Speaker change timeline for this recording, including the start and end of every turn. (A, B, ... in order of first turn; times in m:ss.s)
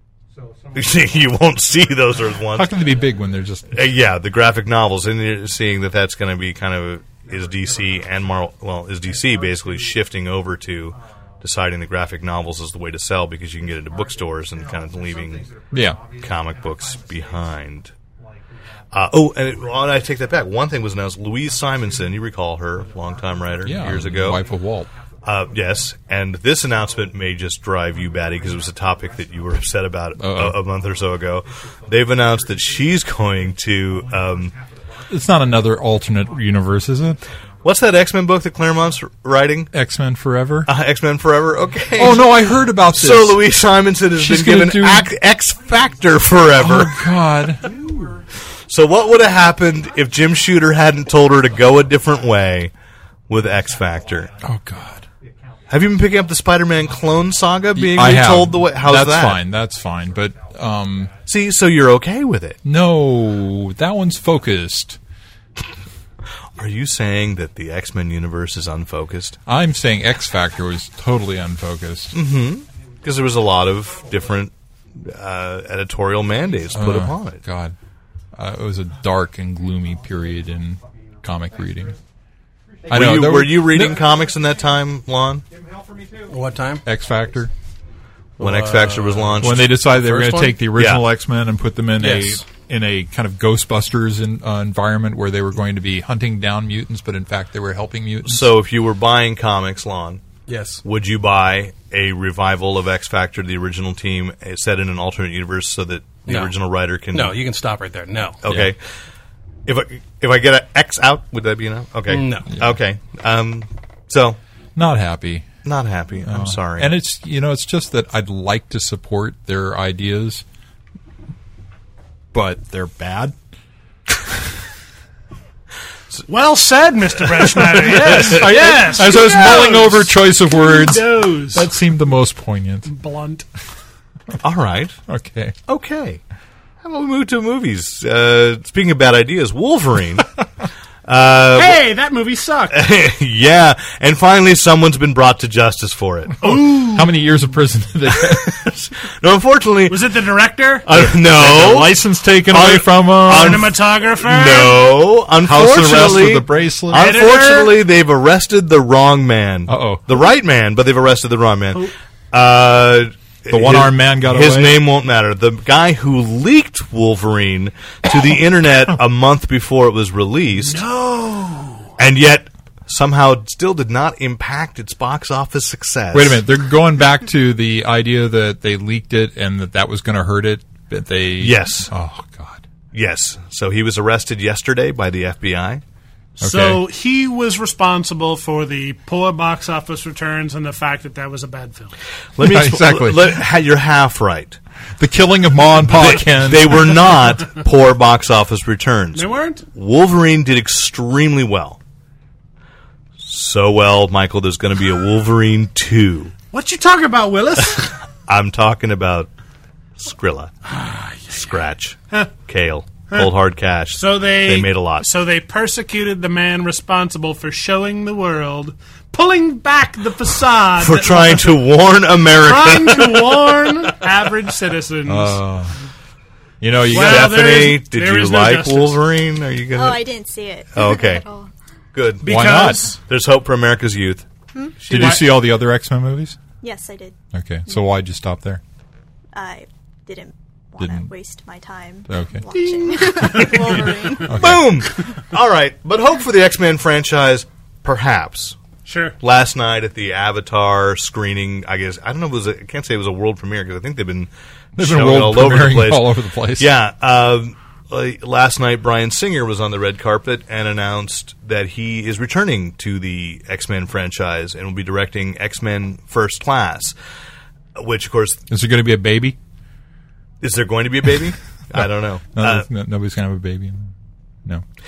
0:00.3-0:03.6 A
0:00.7-0:02.8 B
0:02.5-0:03.7 C
0:03.7-0:15.4 B
0:07.2-0:10.0 A
0:10.9-0:11.4 A
0:13.6-0:17.6 A
0:15.7-0:16.0 C
0:16.2-0:17.9 B
0:18.1-0:29.8 A
0:18.9-0:24.4 B
0:23.6-0:24.9 C
0:25.2-0:34.5 B
0:30.2-0:30.6 C
0:30.5-0:38.0 A
0:35.1-0:37.2 C
0:37.6-0:39.7 B
0:38.6-0:39.0 A
0:39.7-0:40.7 C
0:40.6-0:47.0 B
0:41.6-0:42.3 A
0:42.0-0:43.4 C
0:44.1-0:45.1 C
0:45.3-0:52.5 A
0:46.5-0:48.0 C
0:48.7-0:52.7 B
0:53.3-0:54.3 B
0:53.3-1:01.4 A
0:54.4-0:55.0 C
0:55.7-0:59.4 B
0:57.7-1:01.1 C
1:01.3-1:02.6 B
1:02.6-1:05.0 C
1:06.6-1:09.4 B
1:09.4-1:12.2 C
1:12.1-1:17.4 B
1:13.9-1:14.4 A
1:16.7-1:17.8 C
1:18.3-1:21.9 C
1:19.6-1:22.0 A
1:22.7-1:24.8 A
1:22.9-1:25.4 B
1:22.9-1:24.0 C
1:25.4-1:26.5 A
1:26.3-1:26.8 D
1:26.8-1:27.5 C
1:27.1-1:27.5 A
1:28.4-1:30.6 D
1:28.4-1:29.7 B
1:29.4-1:38.5 C
1:30.7-1:31.0 B
1:32.0-1:32.4 D
1:38.2-1:40.2 B
1:40.5-1:40.8 D
1:40.8-1:47.4 B
1:46.2-1:46.5 D
1:47.1-1:48.4 D
1:48.4-1:48.8 B
1:49.6-1:54.4 B
1:52.1-1:52.6 D
1:54.8-1:55.5 C
1:55.6-1:56.9 B
1:56.2-2:00.4 C
2:02.3-2:03.4 C
2:04.1-2:04.4 C
2:06.3-2:11.7 E
2:07.4-2:08.5 B
2:07.8-2:12.9 C
2:12.8-2:13.4 E
2:14.4-2:15.0 B
2:15.1-2:15.5 C
2:15.7-2:16.2 B
2:16.8-2:20.3 B
2:21.0-2:21.8 B
2:21.5-2:22.8 E
2:22.7-2:26.6 B
2:26.4-2:27.1 E
2:26.4-2:28.7 C
2:28.2-2:30.2 B
2:29.9-2:30.9 E
2:30.8-2:50.8 B
2:30.9-2:33.7 C
2:33.2-2:35.1 E
2:35.4-2:37.1 C
2:36.9-2:37.8 E
2:39.7-2:40.0 C
2:43.5-2:44.8 C
2:50.6-2:51.9 E
2:52.0-2:56.4 B
2:56.1-3:02.6 C
3:01.4-3:01.9 B
3:02.9-3:05.8 B
3:06.4-3:11.9 E
3:06.4-3:06.8 C
3:12.4-3:14.6 B
3:12.4-3:13.4 C
3:15.0-3:17.2 C
3:15.9-3:21.8 B
3:19.1-3:19.6 E
3:23.2-3:26.3 B
3:26.5-3:28.0 E
3:28.3-3:29.3 B
3:30.0-3:30.5 B
3:30.7-3:31.4 E
3:31.3-3:35.1 B
3:33.9-3:41.7 E
3:40.8-3:43.9 B
3:42.3-3:45.4 E
3:45.0-3:45.7 C
3:46.6-3:47.4 C
3:46.8-3:49.0 E
3:46.9-3:50.1 B
3:49.7-3:51.5 F
3:50.7-3:51.2 B
3:51.9-3:54.2 B
3:52.2-3:53.0 E
3:52.2-3:53.0 C
3:54.8-3:55.4 B
3:54.9-3:56.4 C
3:56.6-3:57.1 F
3:57.3-3:58.6 C
3:59.3-4:04.6 F
4:00.8-4:01.1 C
4:02.1-4:02.4 C
4:02.5-4:04.2 E
4:04.3-4:04.8 C
4:04.3-4:08.6 B
4:08.8-4:09.2 E
4:09.2-4:26.9 B
4:14.8-4:16.7 C
4:27.8-4:28.4 B
4:28.5-4:29.4 C
4:30.4-4:32.7 B
4:32.3-4:33.9 C